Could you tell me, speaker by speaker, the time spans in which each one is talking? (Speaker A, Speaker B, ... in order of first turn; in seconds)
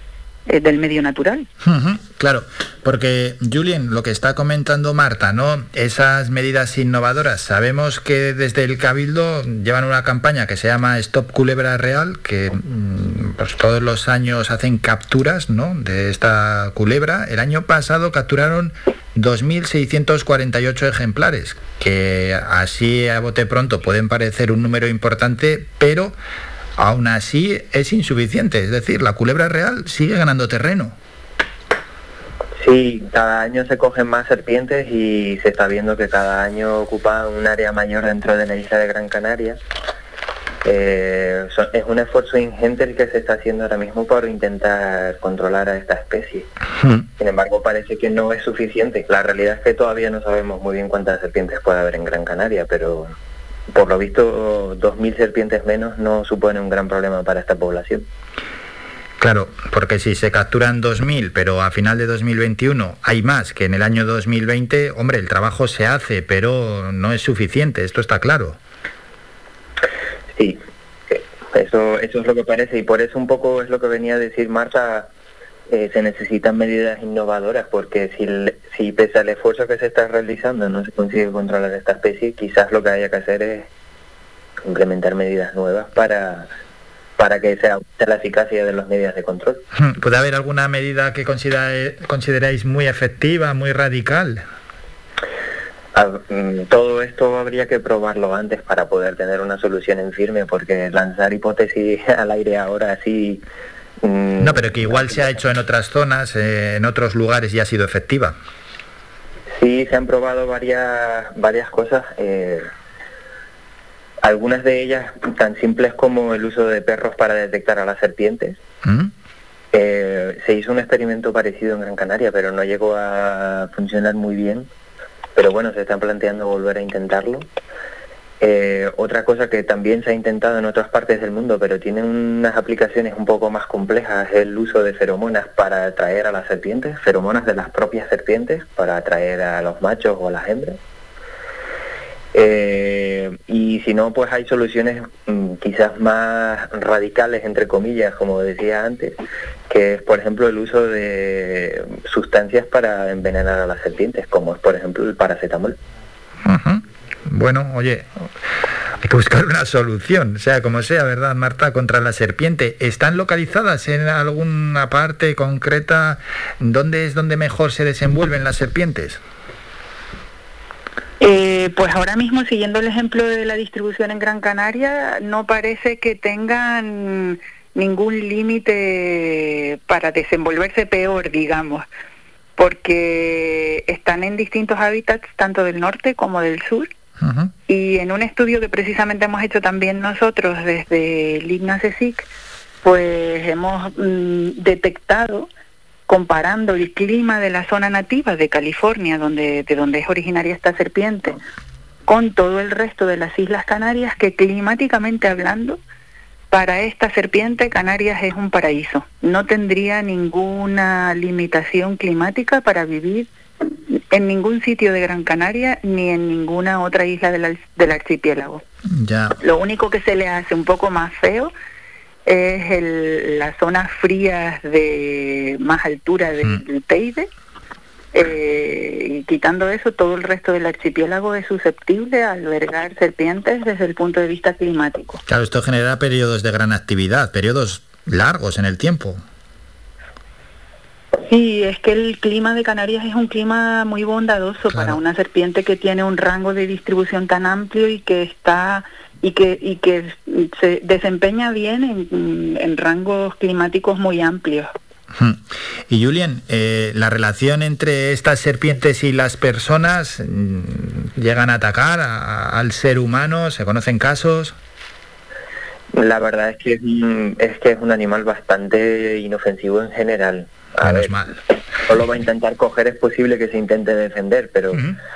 Speaker A: 0.5-1.5, 171.2-181.8, 182.6-186.9, 187.7-192.3, 192.8-195.5, 196.1-201.4, 202.1-205.8, 206.5-213.3, 213.9-218.6, 219.4-221.5, 222.2-227.3, 228.1-235.2, 241.2-254.7
Speaker B: 1.6-26.1, 26.8-30.9, 59.2-68.6, 89.8-94.4, 104.4-108.3, 118.8-119.1, 156.4-158.1, 159.0-169.2, 187.2-187.5, 218.9-219.3, 235.3-239.2, 244.7-245.0, 255.9-264.6, 270.8-271.4, 274.7-275.0
Speaker C: 32.6-39.6, 40.6-46.5, 47.2-53.1, 53.7-58.0, 71.1-75.1, 75.7-83.7, 84.7-86.5, 87.2-89.6, 95.9-103.4, 104.0-105.4, 109.6-112.7, 114.2-118.5, 119.7-124.7, 125.3-127.4, 128.4-140.8, 142.3-149.2, 149.7-155.8, 265.9-271.1, 271.9-274.8